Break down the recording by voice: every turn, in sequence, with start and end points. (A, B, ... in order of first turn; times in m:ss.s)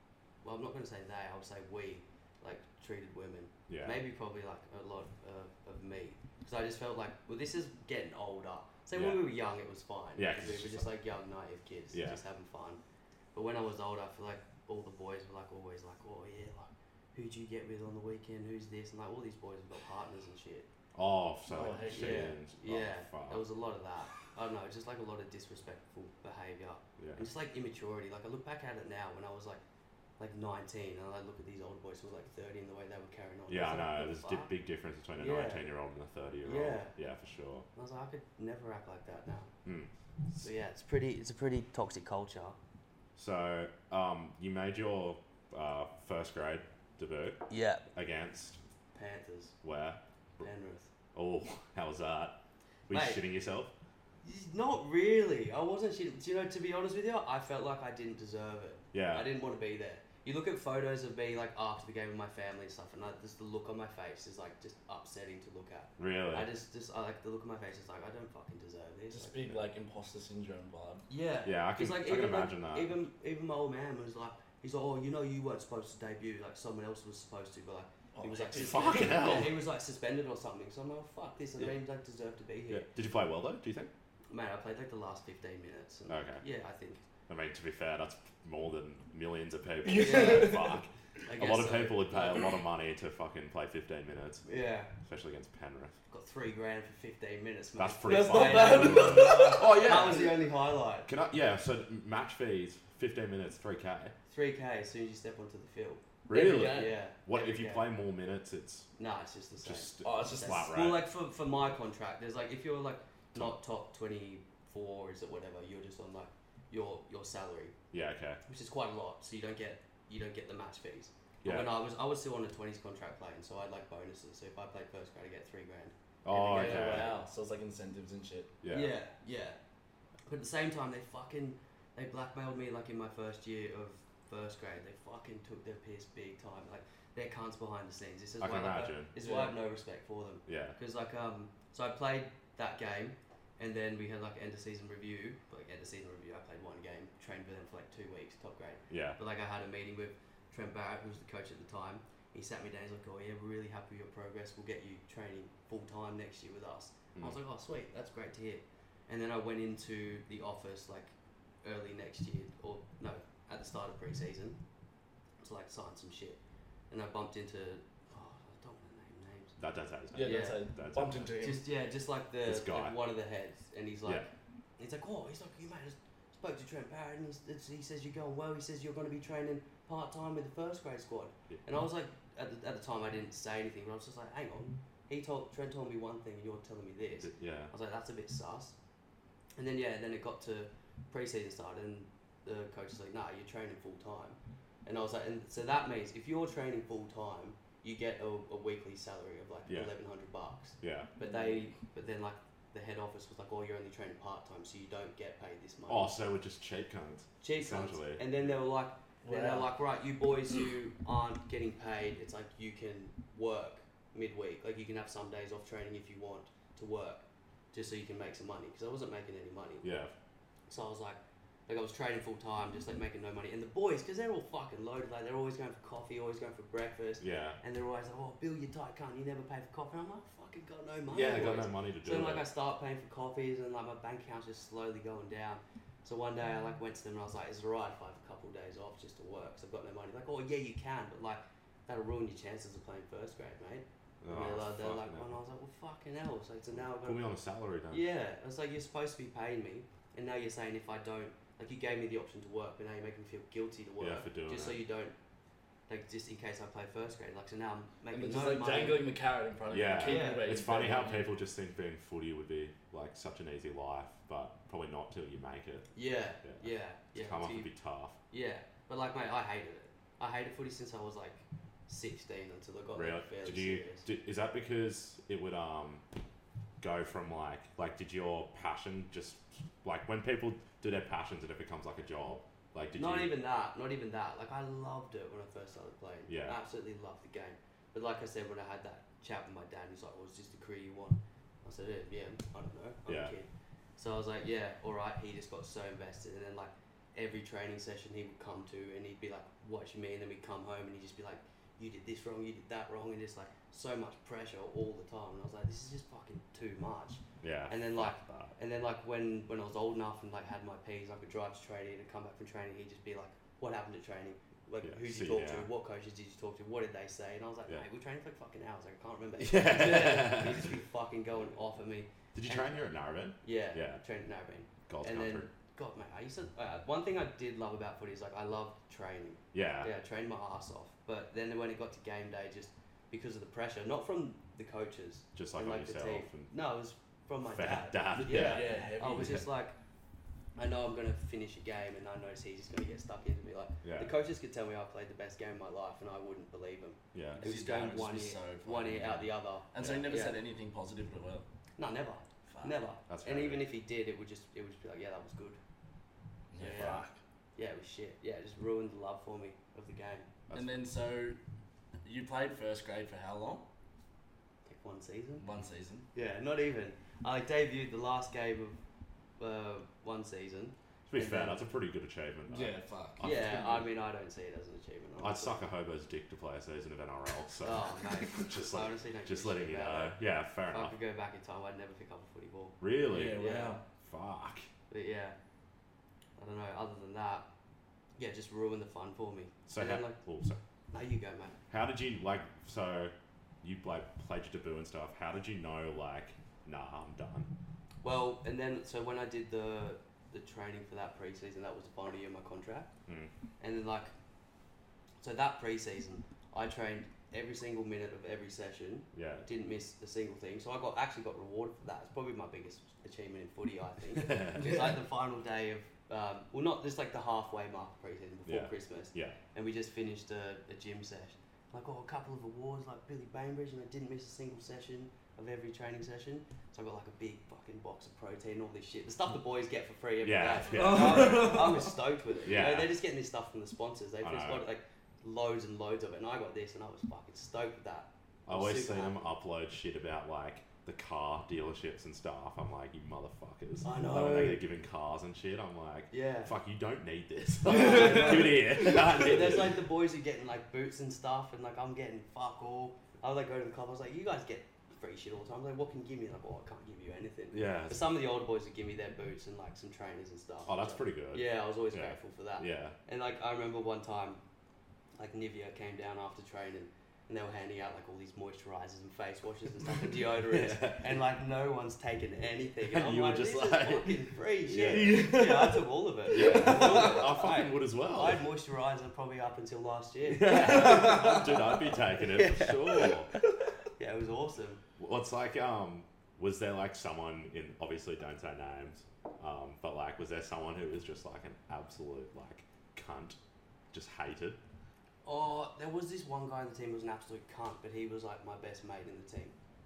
0:00.4-0:12.8 A
0:03.7-0:04.0 B
0:08.9-0:09.3 B
0:10.2-0:10.9 B
0:11.9-0:12.2 B
0:13.3-0:20.7 A
0:20.9-0:23.4 B
0:21.5-0:22.3 C
0:21.8-0:29.6 A
0:27.0-0:27.3 B
0:30.2-0:34.5 A
0:33.5-0:37.6 B
0:35.2-0:35.7 A
0:36.4-0:36.9 A
0:37.8-0:39.5 A
0:39.6-0:40.4 B
0:40.4-0:42.6 A
0:43.2-0:48.6 B
0:47.5-0:47.8 A
0:48.9-0:49.5 A
0:49.6-0:50.5 B
0:50.4-0:50.9 A
0:51.1-0:53.7 B
0:52.9-0:53.2 A
0:54.2-1:09.5 A
0:58.9-0:59.3 B
1:06.0-1:06.5 B
1:09.1-1:11.0 C
1:11.1-1:22.9 A
1:11.4-1:13.0 B
1:18.2-1:19.4 C
1:18.5-1:19.6 B
1:22.7-1:23.9 B
1:24.3-1:27.0 A
1:26.1-1:26.4 B
1:27.3-1:34.4 B
1:29.8-1:30.6 C
1:30.0-1:30.6 A
1:31.3-1:32.2 A
1:34.4-1:34.9 A
1:35.0-1:35.9 B
1:36.1-1:41.1 A
1:37.8-1:40.4 B
1:38.0-1:39.9 C
1:41.0-1:44.1 B
1:44.3-1:46.0 A
1:46.3-1:48.9 B
1:46.3-1:46.9 C
1:46.7-1:47.9 A
1:49.0-1:57.8 A
1:49.6-1:51.1 B
1:50.0-1:50.7 C
1:57.9-1:58.4 B
1:58.4-2:07.2 A
2:01.4-2:01.7 B
2:06.2-2:07.2 B
2:06.5-2:08.5 C
2:08.6-2:08.9 B
2:08.7-2:09.6 A
2:10.3-2:41.1 A
2:18.4-2:19.1 B
2:19.2-2:19.5 C
2:20.4-2:20.8 B
2:28.9-2:29.2 B
2:41.6-2:44.6 A
2:45.4-2:46.4 A
2:46.9-2:49.6 A
2:49.6-2:51.4 B
2:50.1-2:51.6 C
2:50.2-2:50.6 A
2:51.4-3:08.8 A
2:52.4-2:53.0 B
3:07.2-3:07.7 B
3:09.6-3:26.1 A
3:19.7-3:19.9 B
3:20.8-3:21.1 B
3:21.2-3:21.6 C
3:25.9-3:28.3 B
3:27.4-3:39.9 A
3:29.2-3:29.7 C
3:39.8-3:40.1 B
3:40.7-4:07.2 A
3:47.2-3:47.6 B
3:51.1-3:52.5 B
4:04.2-4:05.4 B
4:06.8-4:08.0 B
4:07.9-4:15.1 A
4:14.0-4:14.8 B
4:15.9-4:19.0 A
4:18.1-4:21.3 C
4:19.7-4:25.9 B
4:20.0-4:20.5 A
4:25.9-4:27.7 A
4:26.4-4:28.2 B
4:28.3-4:34.0 A
4:32.9-4:36.0 B
4:36.8-4:43.4 B
4:43.0-5:22.8 A
4:46.3-4:46.6 B
4:53.1-4:53.3 B
5:07.4-5:08.6 B
5:14.8-5:15.7 B
5:19.4-5:20.7 B
5:22.3-5:24.0 B
5:23.4-5:39.8 A
5:24.9-5:25.5 B
5:29.5-5:29.9 B
5:35.3-5:36.5 B
5:37.4-5:39.3 B
5:38.1-5:39.4 C
5:40.6-5:50.4 A
5:43.8-5:44.2 B
5:47.1-5:47.4 B
5:47.3-5:51.5 C
5:49.8-5:50.1 B
5:51.8-5:55.6 A
5:52.5-5:52.8 C
5:53.1-5:53.7 B
5:56.5-5:57.1 C
5:56.6-5:57.0 A
5:56.6-5:57.1 B
5:57.6-6:00.3 A
6:00.5-6:01.4 C
6:02.0-6:03.6 C
6:04.6-6:05.5 A
6:05.4-6:06.0 C
6:06.1-6:08.8 A
6:09.4-6:11.6 A
6:11.1-6:13.9 B
6:12.5-6:13.6 C
6:13.2-6:15.6 A
6:15.2-6:21.0 B
6:17.6-6:23.8 A
6:22.8-6:23.4 B
6:23.1-6:23.8 C
6:24.0-6:24.7 B
6:24.9-6:25.4 A
6:26.4-6:27.5 A
6:28.2-6:30.2 A
6:29.7-6:30.6 B
6:30.9-6:31.6 A
6:31.7-6:37.5 B
6:38.0-6:42.9 A
6:43.6-6:44.1 A
6:45.2-7:19.2 A
6:49.1-6:49.5 B
6:54.1-6:55.0 B
6:58.5-6:59.4 B
7:10.2-7:11.7 B
7:10.7-7:12.0 C
7:12.4-7:13.0 B
7:14.2-7:14.6 B
7:18.5-7:29.8 B
7:23.8-7:24.6 A
7:26.1-7:26.5 A
7:27.6-7:44.4 A
7:37.5-7:38.2 B
7:40.7-7:43.0 B
7:45.2-8:03.2 A
7:50.5-7:51.1 B
7:52.8-7:55.2 B
7:54.7-7:57.2 C
7:56.3-7:58.4 B
8:00.2-8:03.3 B
8:00.6-8:01.2 C
8:04.0-8:04.8 A
8:05.0-8:13.4 B
8:13.9-8:14.6 B
8:15.2-8:19.5 A